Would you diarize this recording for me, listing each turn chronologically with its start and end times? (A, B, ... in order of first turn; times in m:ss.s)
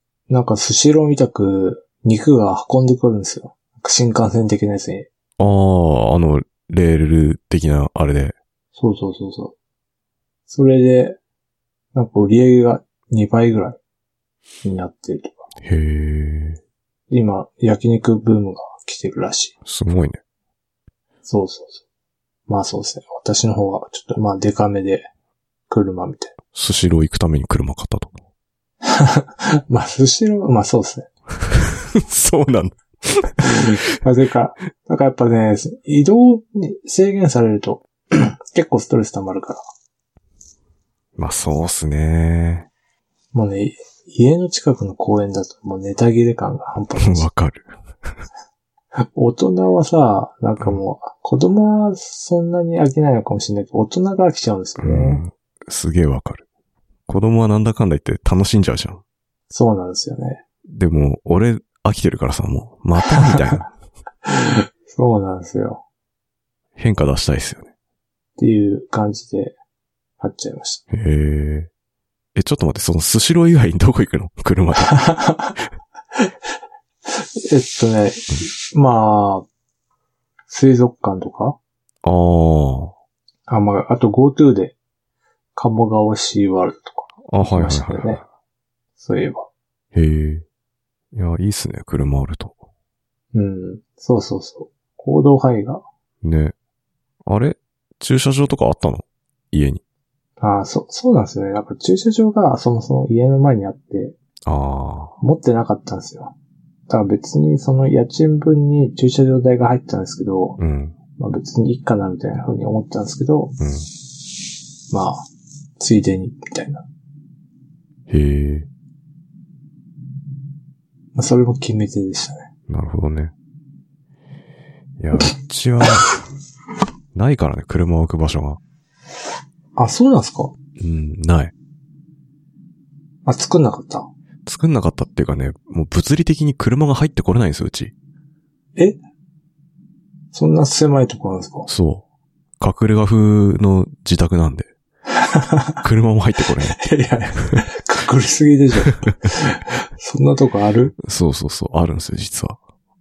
0:00.3-0:05.1 A
0:05.4-0:08.3 B
0:08.8-0:09.5 A
0:10.5-0:11.2 A
0:11.9-0:13.8 A
0:14.6-0:15.5 A
0:15.6-0:16.6 B
0:17.1-0:19.5 A
0:19.6-0:20.2 B
0:21.2-0:21.8 A
0:22.5-0:25.1 A
0:25.7-0:26.3 A
0:26.5-0:28.1 B
0:28.8-0:31.1 A
0:31.9-0:33.6 B
0:33.4-0:39.6 A
0:41.2-0:42.7 B
0:43.3-0:47.3 A
0:47.0-0:47.7 B
0:49.1-0:55.2 A
0:54.8-0:56.4 B
0:57.1-0:59.0 B
0:59.5-1:00.4 A
1:00.7-1:03.7 B
1:04.3-1:05.8 A
1:06.8-1:07.7 B
1:08.4-1:09.5 A
1:10.2-1:10.8 A
1:10.9-1:11.7 B
1:12.3-1:15.0 B
1:14.8-1:15.6 A
1:17.0-1:19.5 A
1:20.5-1:21.6 A
1:22.0-1:22.9 B
1:23.5-1:24.8 A
1:25.6-1:28.2 A
1:27.2-1:28.2 B
1:29.0-1:29.5 A
1:29.9-1:30.4 B
1:31.1-1:32.6 B
1:33.3-1:35.8 A
1:36.2-1:36.5 B
1:37.2-1:39.8 B
1:40.4-1:44.2 A
1:44.5-1:45.2 B
1:45.2-1:46.3 A
1:46.9-1:50.6 A
1:50.6-1:50.9 B
1:51.2-1:53.5 A
1:53.6-1:53.9 B
1:54.9-1:55.2 A
1:55.8-1:56.8 A
1:58.1-1:58.7 B
2:01.1-2:02.5 A
2:02.7-2:03.3 B
2:05.0-2:06.1 B
2:07.1-2:08.6 B
2:09.8-2:10.5 A
2:10.8-2:11.5 B
2:13.2-2:14.1 A
2:14.4-2:17.9 B
2:20.3-2:21.7 A
2:21.7-2:22.0 B
2:22.6-2:24.7 B
2:25.2-2:25.8 A
2:25.8-2:26.9 B
2:26.7-2:30.9 A
2:31.0-2:32.6 B